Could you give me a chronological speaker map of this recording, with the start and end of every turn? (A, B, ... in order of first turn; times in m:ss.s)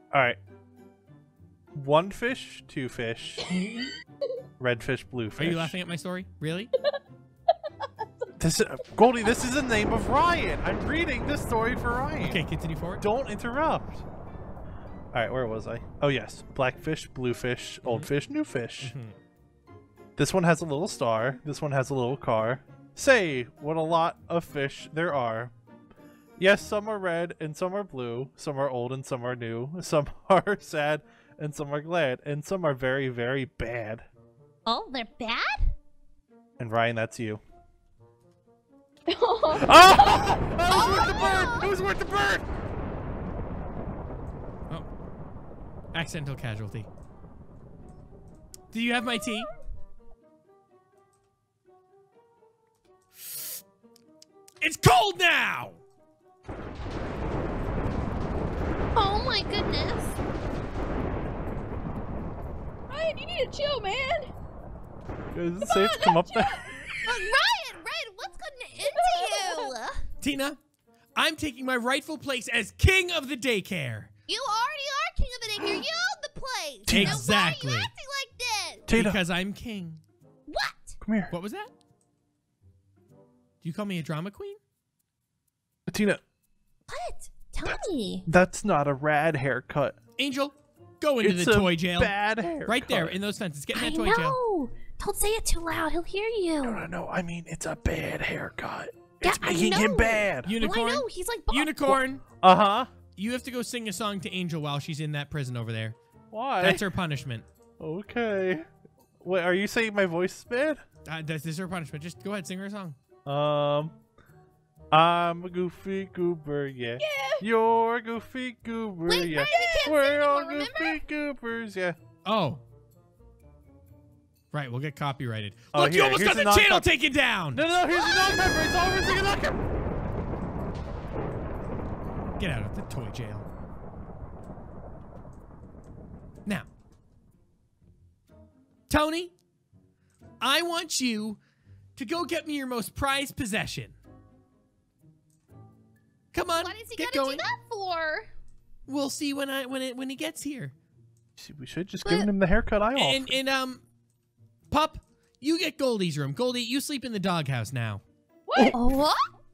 0:00.1-0:00.4 A
0:01.7-0:03.6 A
0:04.6-0:05.7 A
0:05.4-0:06.7 B
0:07.8-0:08.2 C
0:08.4-0:12.4 A
0:12.2-0:13.0 B
0:13.0-0:14.0 A
0:15.1-0:18.9 A
0:17.8-0:18.1 B
0:18.8-0:19.2 B
0:20.2-0:25.5 A
0:26.4-0:34.0 A
0:34.6-0:35.7 D
0:36.6-0:37.4 A
0:39.1-0:40.4 C
0:39.5-0:42.5 A
0:40.7-0:41.7 D
0:45.9-0:46.9 B
0:48.7-0:49.5 B
0:49.1-0:49.4 D
0:54.6-0:55.8 B
0:58.9-1:00.2 D
1:02.9-1:04.3 C
1:05.3-1:07.1 A
1:05.6-1:06.7 C
1:07.0-1:10.0 D
1:08.8-1:09.7 C
1:10.2-1:10.6 B
1:11.2-1:14.1 B
1:14.3-1:18.8 D
1:16.9-1:17.2 A
1:16.9-1:17.9 B
1:18.9-1:19.2 A
1:18.9-1:20.0 B
1:20.5-1:21.0 D
1:21.0-1:21.3 A
1:21.3-1:21.7 B
1:23.6-1:24.6 B
1:25.9-1:26.2 A
1:26.9-1:28.2 D
1:27.6-1:30.0 A
1:30.2-1:34.4 B
1:31.2-1:33.2 A
1:33.7-1:36.8 D
1:36.6-1:40.5 A
1:39.2-1:41.9 D
1:40.4-1:42.2 B
1:42.4-1:42.9 A
1:43.2-1:46.0 B
1:46.3-1:46.8 A
1:46.6-1:47.4 B
1:47.8-1:48.6 A
1:49.2-1:50.8 A
1:51.0-1:53.0 B
1:53.2-1:53.9 A
1:54.9-2:02.0 A
1:57.0-1:57.4 C
1:59.1-2:01.0 D
1:59.4-2:00.0 C
2:02.2-2:02.6 B
2:04.5-2:07.6 B
2:05.7-2:06.8 A
2:07.5-2:09.6 A
2:07.9-2:08.5 D
2:12.4-2:13.4 B
2:18.9-2:19.3 B
2:20.4-2:21.4 B
2:22.0-2:24.0 B
2:26.3-2:27.4 B
2:26.6-2:28.3 D
2:28.9-2:30.7 B
2:31.4-2:33.3 A
2:32.9-2:33.8 B
2:34.7-2:38.0 B
2:38.5-2:38.8 C
2:38.6-2:39.3 D